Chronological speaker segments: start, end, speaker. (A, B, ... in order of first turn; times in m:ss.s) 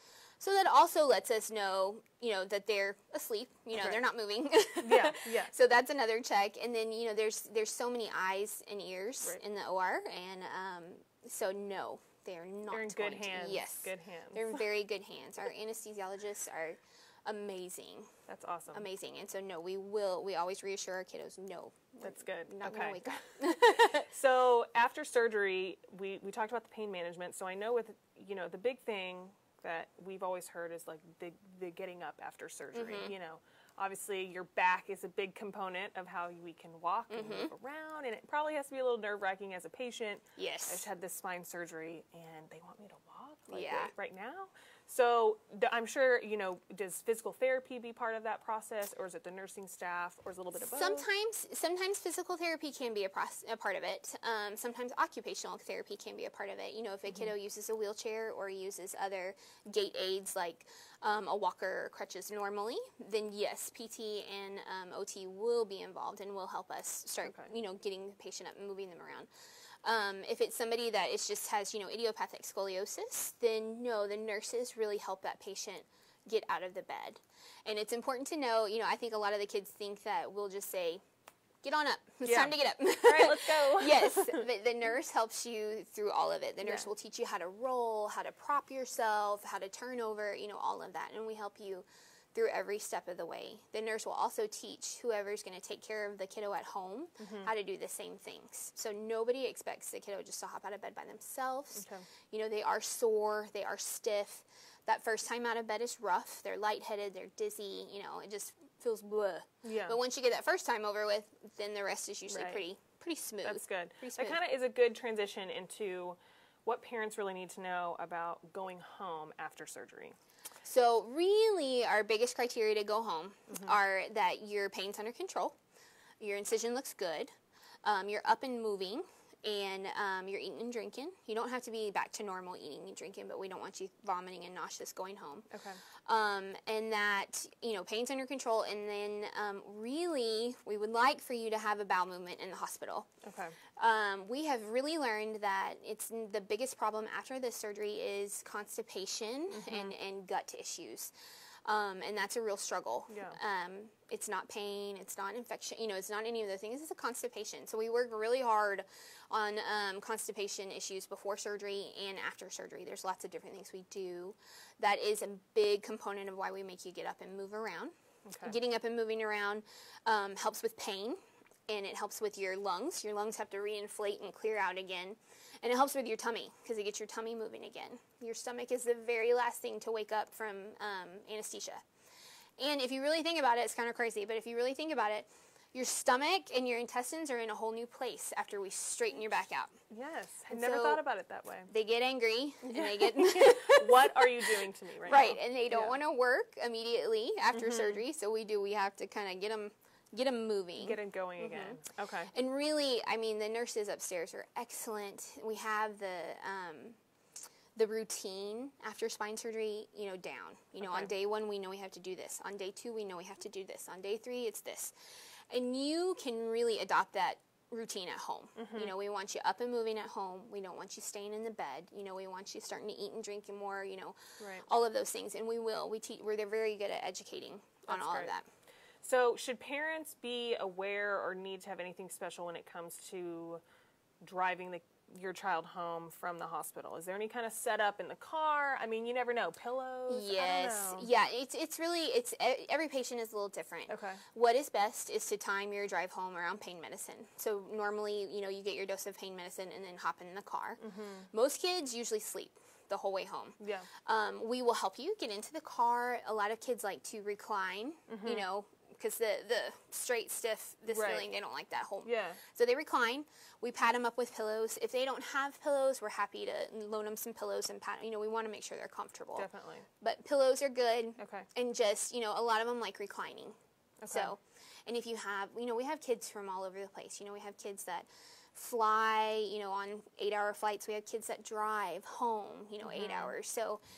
0:00.4-0:18.1 A
0:04.8-0:05.5 B
0:12.7-0:14.6 B
0:18.3-0:18.8 B
0:18.7-0:24.1 A
0:22.0-0:23.2 B
0:23.8-0:51.1 B
0:32.7-0:33.1 A
0:37.1-0:37.5 A
0:40.4-0:40.8 A
0:43.5-0:43.9 A
0:50.6-1:09.3 A
1:09.8-1:21.0 A
1:21.6-1:54.4 A
1:22.2-1:24.4 B
1:26.6-1:26.9 B
1:37.2-1:37.5 B
1:41.7-1:42.0 B
1:49.6-1:50.0 B
1:52.3-1:52.6 B
1:53.4-2:00.2 B
2:00.6-2:05.6 A
2:03.5-2:03.7 B
2:06.2-2:07.3 A
2:07.8-2:15.5 A
2:15.5-2:15.8 B
2:16.0-2:23.1 A
2:23.2-2:23.6 B
2:23.8-2:31.1 A
2:29.5-2:29.9 B
2:31.6-3:01.8 A
2:33.1-2:33.4 B
2:48.2-2:48.6 B
3:02.6-3:09.7 A
3:09.9-3:11.7 B
3:10.5-3:11.0 A
3:11.7-3:21.8 A
3:12.6-3:16.0 B
3:17.5-3:18.0 B
3:20.8-3:22.3 B
3:22.3-3:27.0 A
3:27.7-3:34.9 A
3:30.8-3:31.1 B
3:35.5-3:48.4 A
3:38.6-3:38.9 B
3:44.4-3:44.6 B
3:47.9-3:48.3 B
3:49.0-3:53.6 B
3:54.2-4:01.1 B
4:00.1-4:10.8 A
4:03.9-4:04.2 B
4:10.8-4:11.3 B
4:11.3-4:29.5 A
4:13.6-4:13.9 B
4:18.1-4:18.4 B
4:20.9-4:21.3 B
4:22.0-4:22.4 B
4:29.4-4:29.9 B
4:30.0-4:33.6 A
4:31.2-4:31.5 B
4:34.0-4:34.3 B
4:34.1-4:43.8 A
4:42.8-4:43.3 B